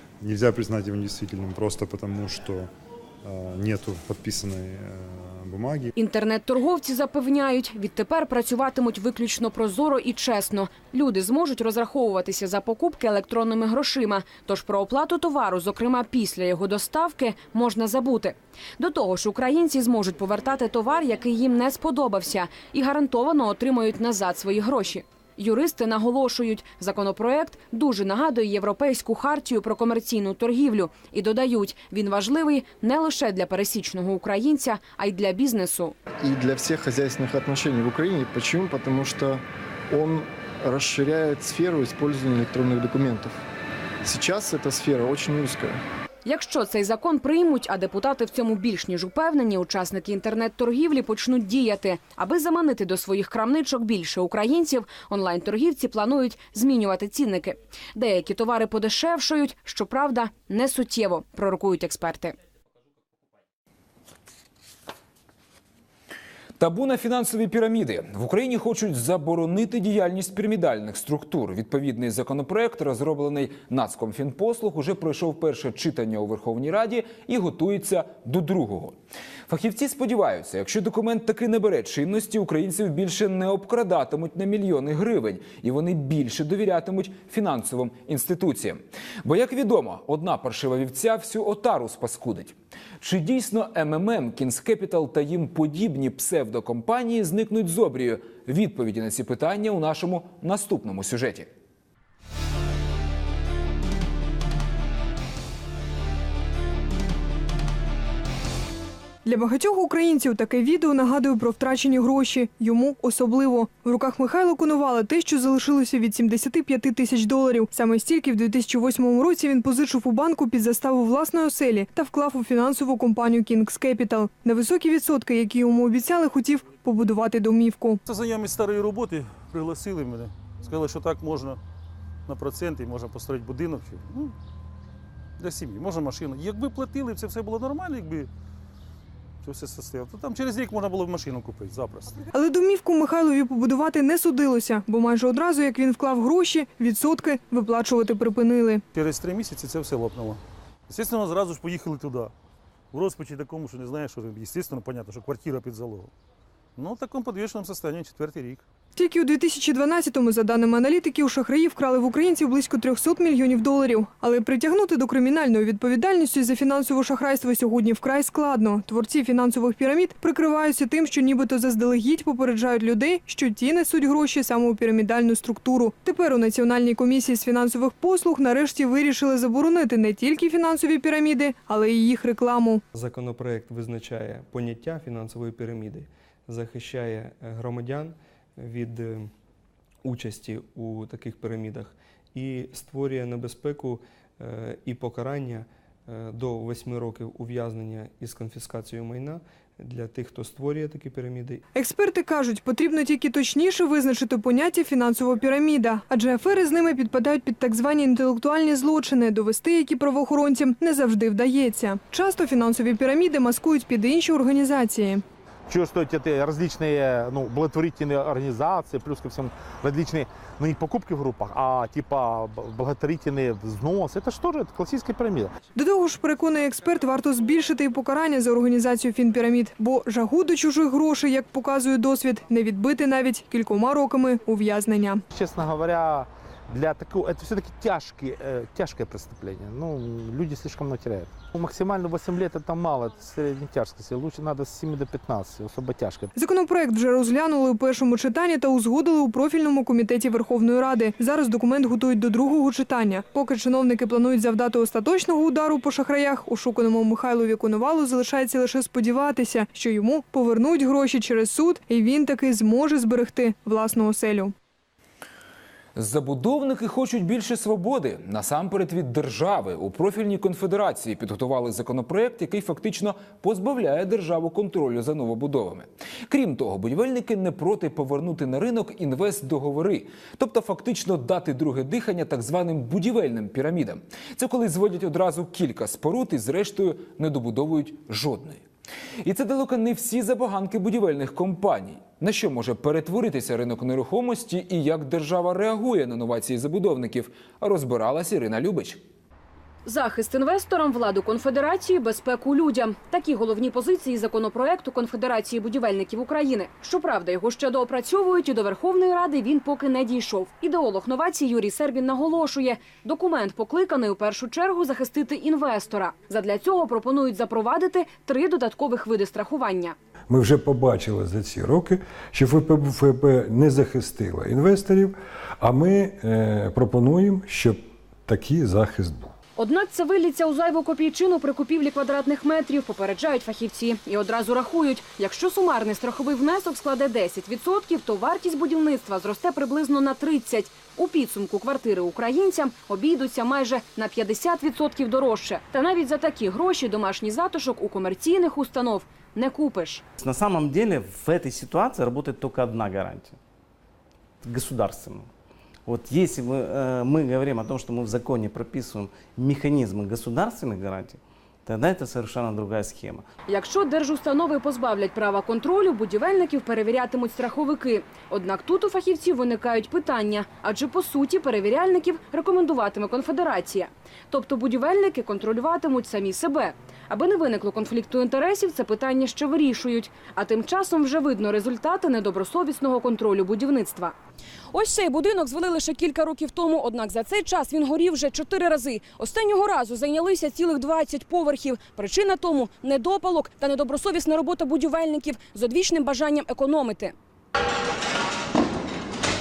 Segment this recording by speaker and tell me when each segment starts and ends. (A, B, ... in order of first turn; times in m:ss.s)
0:00.2-0:02.7 A
0:03.2-0:05.9 A
0:06.0-0:36.0 B
0:36.2-0:43.4 C
0:44.0-0:45.8 C
0:46.2-1:02.3 B
1:06.6-1:41.5 D
1:49.2-2:08.0 E
2:08.0-2:11.6 F
2:12.2-2:14.3 F
2:15.4-2:18.3 F
2:19.4-2:22.2 F
2:22.3-2:28.8 E
2:28.9-2:32.3 F
2:32.9-2:36.1 F
2:36.8-2:38.6 F
2:38.9-3:02.8 E
3:02.9-3:09.3 G
3:10.0-3:21.6 G
3:21.7-3:35.2 E
3:35.7-3:45.5 H
3:45.7-3:55.2 E
3:55.3-4:06.3 H
4:06.3-4:24.5 E
4:25.9-4:48.6 D
4:49.2-4:59.0 D
4:59.8-5:19.9 B
5:20.3-5:29.3 I
5:29.6-5:50.0 B
5:50.2-5:53.4 J
5:54.4-5:55.3 J
5:55.8-6:03.2 J
6:03.5-6:24.2 B
6:24.7-6:37.1 B